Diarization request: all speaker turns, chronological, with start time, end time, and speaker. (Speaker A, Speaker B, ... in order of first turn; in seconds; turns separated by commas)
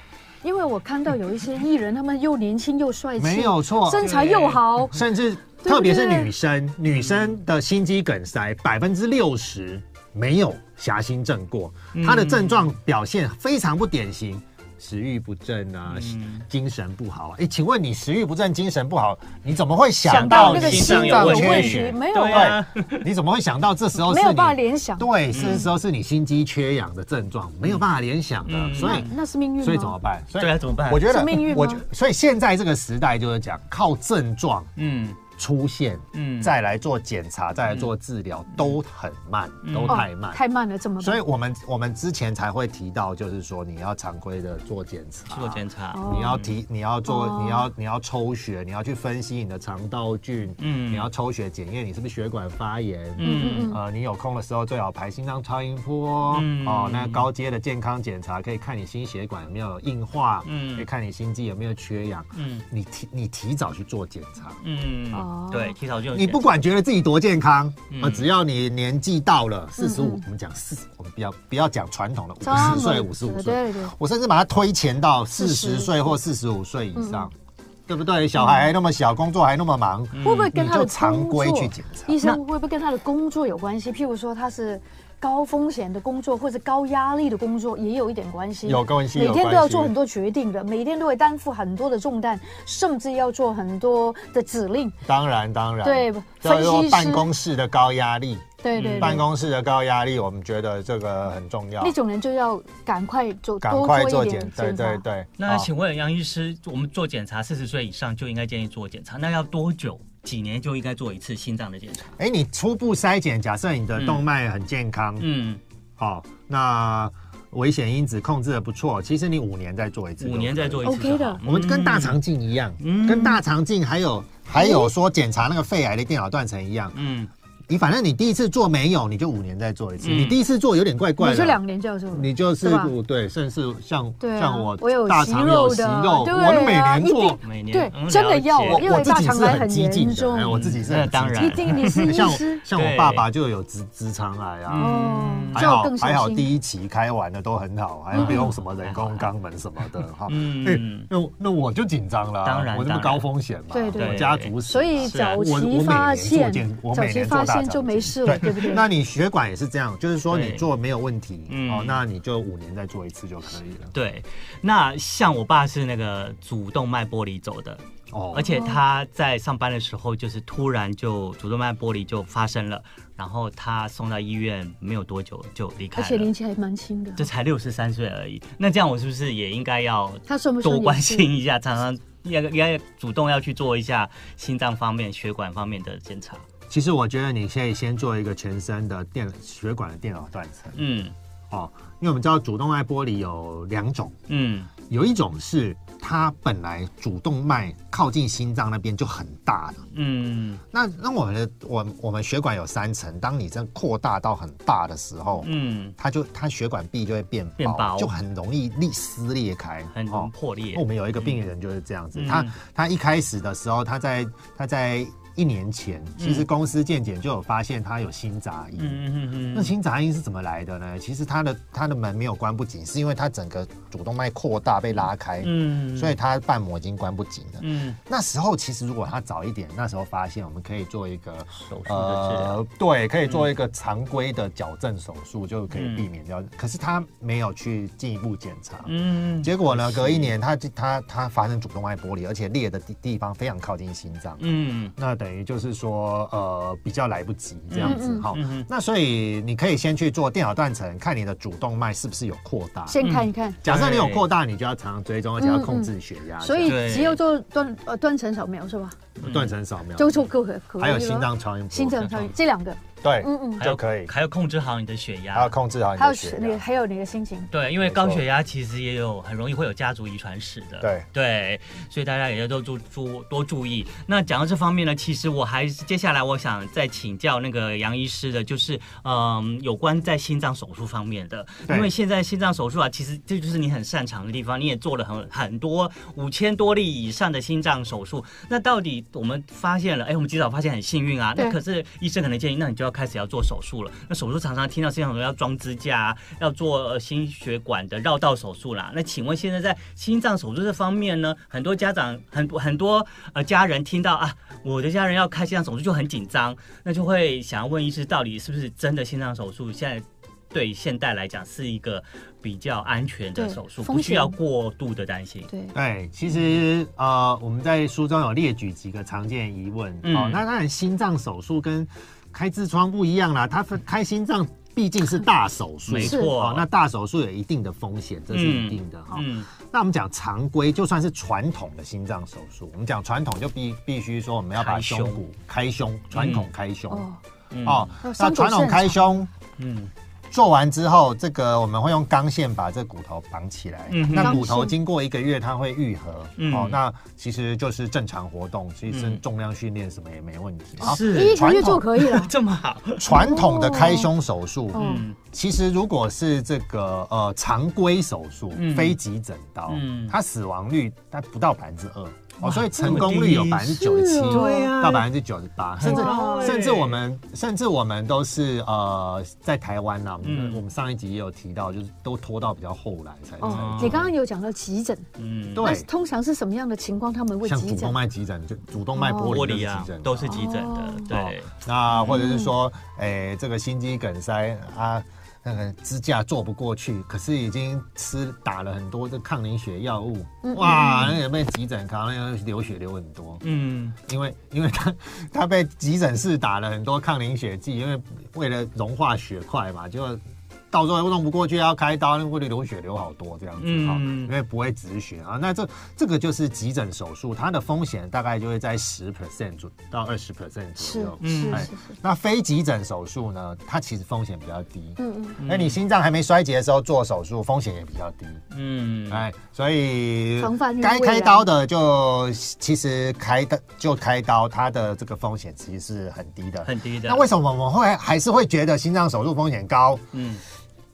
Speaker A: 0.4-5.0, Speaker B: 3.2-4.1, Speaker C: 3.9-4.9, Speaker B: 4.9-34.7, Speaker A: 5.6-6.3, Speaker C: 6.9-7.3, Speaker C: 11.9-12.7, Speaker C: 15.9-16.4, Speaker C: 20.1-23.1, Speaker A: 20.1-22.6, Speaker A: 24.0-25.7, Speaker C: 25.3-25.7, Speaker C: 28.4-29.1, Speaker A: 28.8-30.0, Speaker C: 30.4-31.1, Speaker A: 31.0-31.8, Speaker C: 34.8-35.3, Speaker B: 35.3-40.4, Speaker C: 36.1-36.5, Speaker C: 39.6-40.0, Speaker A: 39.9-41.2, Speaker B: 41.0-64.6, Speaker C: 45.3-46.5, Speaker A: 45.9-46.4, Speaker A: 47.0-47.7, Speaker C: 50.6-51.1, Speaker C: 53.2-53.7, Speaker A: 53.2-53.8, Speaker C: 56.3-57.3, Speaker C: 60.4-60.9, Speaker C: 62.3-62.6, Speaker C: 64.6-66.5, Speaker A: 65.1-65.7, Speaker B: 66.1-77.3, Speaker C: 67.9-68.3, Speaker A: 69.8-70.2, Speaker A: 72.4-73.9, Speaker A: 75.3-76.1, Speaker A: 77.0-77.3, Speaker B: 77.9-82.2, Speaker A: 78.4-78.7, Speaker C: 80.1-80.5, Speaker A: 80.2-95.0, Speaker B: 88.6-89.9, Speaker B: 95.0-98.4, Speaker A: 95.8-97.3, Speaker A: 98.6-99.2, Speaker C: 98.8-99.2, Speaker B: 99.0-102.0, Speaker A: 101.8-105.0, Speaker B: 103.6-105.7, Speaker C: 105.4-112.1, Speaker B: 112.2-115.3, Speaker C: 114.0-114.2, Speaker C: 115.2-115.6, Speaker B: 116.0-127.0, Speaker C: 120.2-122.2, Speaker A: 120.8-121.4, Speaker C: 122.8-123.4, Speaker A: 124.6-124.9, Speaker C: 126.9-127.3, Speaker B: 127.7-131.6, Speaker C: 130.0-130.4, Speaker A: 131.2-132.9, Speaker B: 132.1-137.4, Speaker A: 134.2-140.5, Speaker C: 137.4-138.8, Speaker B: 138.6-144.9, Speaker C: 140.4-143.3, Speaker A: 141.3-142.6, Speaker C: 144.7-145.7, Speaker A: 144.8-146.5, Speaker B: 145.5-163.9, Speaker A: 148.1-148.5, Speaker C: 148.1-149.3, Speaker C: 150.3-151.1, Speaker C: 152.4-153.2, Speaker A: 153.7-158.8, Speaker C: 154.0-155.4, Speaker C: 160.3-160.7, Speaker C: 161.5-162.0, Speaker C: 163.9-176.3, Speaker B: 168.1-168.5, Speaker A: 168.4-168.8, Speaker A: 175.9-177.2, Speaker C: 177.2-186.4, Speaker A: 180.3-181.3, Speaker B: 186.7-190.8, Speaker C: 190.7-191.1, Speaker B: 191.5-194.2, Speaker C: 194.3-194.7, Speaker B: 194.8-199.9, Speaker C: 199.9-200.6, Speaker B: 200.7-253.0, Speaker C: 205.4-205.9, Speaker C: 207.6-208.1, Speaker C: 209.9-211.4, Speaker C: 212.1-212.5, Speaker C: 216.2-216.5, Speaker C: 218.8-219.7, Speaker C: 225.4-226.2, Speaker C: 227.6-228.0, Speaker C: 231.5-232.6, Speaker C: 235.7-236.1, Speaker C: 238.8-240.3, Speaker C: 244.4-244.9, Speaker C: 247.7-248.7, Speaker A: 247.8-248.3, Speaker A: 252.9-253.6, Speaker C: 253.0-254.2, Speaker B: 253.6-256.9, Speaker A: 255.4-259.0, Speaker C: 256.6-257.2, Speaker B: 259.2-260.2, Speaker C: 259.2-259.5, Speaker A: 260.0-263.6, Speaker B: 260.8-262.2, Speaker C: 262.0-262.3, Speaker B: 263.0-264.1, Speaker C: 263.6-265.5, Speaker B: 265.3-266.6, Speaker A: 266.0-267.5, Speaker C: 267.5-315.5, Speaker B: 267.8-268.2, Speaker B: 270.8-271.1, Speaker A: 313.3-314.4, Speaker A: 315.5-315.7, Speaker B: 315.7-337.1, Speaker C: 320.0-320.4, Speaker C: 325.9-326.6, Speaker A: 326.0-326.3, Speaker C: 328.3-329.5, Speaker C: 334.6-335.2, Speaker C: 336.1-336.5, Speaker A: 336.9-337.2, Speaker C: 337.5-337.9, Speaker B: 337.6-339.3, Speaker A: 338.0-339.0, Speaker C: 339.6-339.9, Speaker B: 340.3-351.9, Speaker C: 343.9-344.5, Speaker A: 344.1-344.7, Speaker C: 346.4-346.8, Speaker C: 348.9-349.2, Speaker C: 350.8-353.1, Speaker A: 350.9-352.3, Speaker B: 353.0-374.1, Speaker A: 353.1-354.1, Speaker A: 354.7-355.1, Speaker C: 354.7-355.2, Speaker C: 358.5-359.0, Speaker C: 359.7-360.1, Speaker C: 362.4-365.1, Speaker A: 363.8-364.7, Speaker C: 365.8-367.0, Speaker A: 365.8-366.6, Speaker C: 370.2-370.6, Speaker A: 373.4-375.1, Speaker C: 373.4-374.1, Speaker C: 375.2-375.7, Speaker B: 375.5-375.9, Speaker A: 375.6-377.9, Speaker B: 377.4-380.4, Speaker A: 378.9-379.4, Speaker C: 379.2-382.2, Speaker A: 380.2-381.1, Speaker B: 381.1-393.4, Speaker A: 382.0-382.5, Speaker A: 390.4-391.2, Speaker C: 393.4-393.9, Speaker B: 394.0-418.4, Speaker C: 403.6-404.3, Speaker A: 410.8-411.9, Speaker C: 411.2-411.7, Speaker A: 415.0-415.4, Speaker C: 415.4-415.8, Speaker C: 418.5-419.2, Speaker B: 419.1-430.0, Speaker A: 420.4-421.4, Speaker C: 426.6-427.3, Speaker C: 430.1-430.4